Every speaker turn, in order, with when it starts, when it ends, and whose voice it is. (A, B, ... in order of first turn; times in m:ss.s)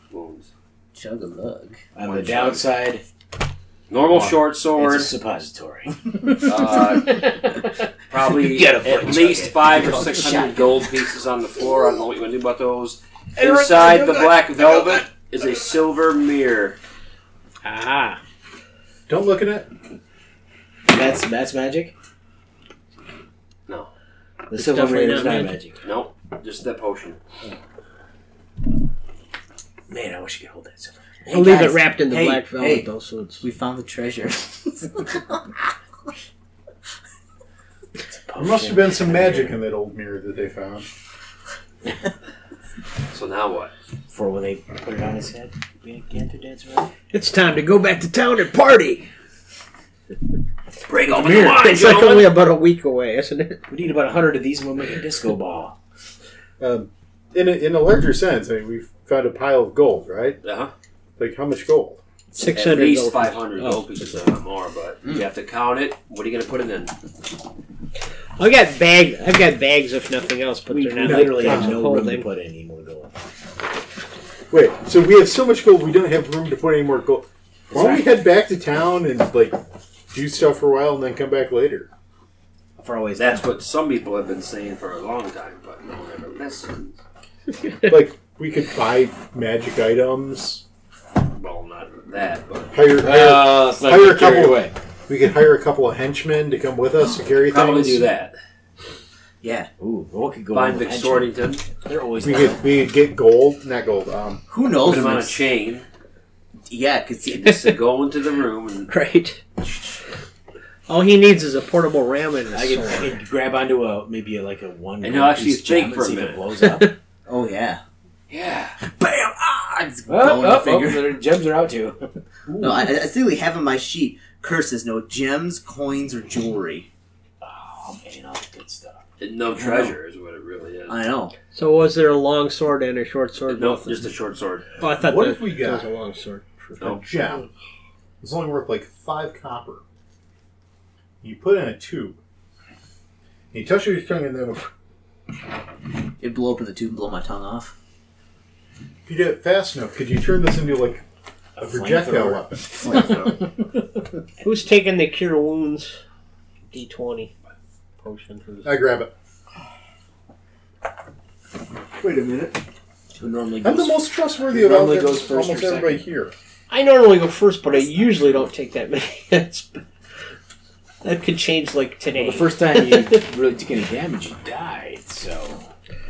0:00.1-0:00.5 A
0:00.9-0:01.8 B
0:01.9-0:03.0 C
0:02.0-0:02.7 A
0:03.9-0:05.1 A
0:04.1-0:10.8 C
0:06.4-0:07.4 A
0:08.1-0:16.8 A
0:09.8-0:10.7 B
0:13.4-0:15.1 C
0:17.6-0:18.2 D
0:19.1-0:19.7 E
0:20.9-0:21.9 C
0:24.5-0:25.6 D
0:24.5-0:25.8 C
0:25.8-0:27.2 A
0:29.9-0:31.2 C
0:31.2-0:32.9 B
0:31.3-0:33.4 D
0:33.4-0:35.5 B
0:38.0-0:39.6 C
0:38.4-0:40.9 E
0:43.1-0:43.7 A
0:44.1-0:46.9 C
0:47.1-0:49.1 D
0:50.9-0:52.3 A
0:51.0-0:51.6 C
0:51.4-0:53.6 D
0:53.7-0:55.8 C
0:56.6-1:00.4 E
1:00.4-1:00.7 A
1:01.2-1:02.0 E
1:02.3-1:03.4 D
1:02.5-1:06.9 A
1:03.6-1:03.9 C
1:08.4-1:12.3 D
1:10.7-1:13.1 C
1:11.0-1:11.8 E
1:14.5-1:19.6 E
1:17.7-1:18.1 C
1:20.1-1:21.9 E
1:22.8-1:23.5 C
1:23.2-1:27.0 A
1:27.8-1:30.6 E
1:31.3-1:32.7 A
1:32.7-1:38.1 E
1:33.0-1:34.7 C
1:37.5-1:38.4 A
1:39.4-1:39.7 B
1:39.8-1:42.6 C
1:40.5-1:41.6 A
1:42.2-1:44.4 E
1:44.5-1:45.4 B
1:44.8-1:45.8 A
1:46.7-1:47.6 B
1:47.3-1:48.9 A
1:48.9-1:49.4 D
1:50.9-1:53.2 D
1:52.5-1:56.9 C
1:55.0-1:56.4 A
1:56.6-1:56.9 D
1:57.3-1:57.8 B
1:58.3-1:58.8 C
1:58.8-2:01.1 B
2:00.1-2:02.9 C
2:02.6-2:06.9 B
2:07.4-2:09.0 C
2:09.2-2:11.0 A
2:09.6-2:09.9 B
2:10.9-2:11.4 B
2:11.5-2:14.1 D
2:13.5-2:14.7 A
2:14.8-2:17.4 D
2:14.9-2:15.9 E
2:16.9-2:17.5 E
2:18.2-2:19.8 E
2:21.2-2:22.2 E
2:23.5-2:24.7 E
2:26.2-2:27.7 B
2:29.0-2:31.0 E
2:31.6-2:33.0 C
2:31.6-2:33.4 E
2:32.8-2:33.3 B
2:34.4-2:36.0 D
2:36.7-2:37.3 D
2:38.0-2:38.7 D
2:38.6-2:39.1 E
2:42.0-2:42.6 E
2:43.1-2:46.0 C
2:43.6-2:46.3 E
2:46.7-2:49.8 D
2:51.0-2:53.2 D
2:52.1-2:55.7 C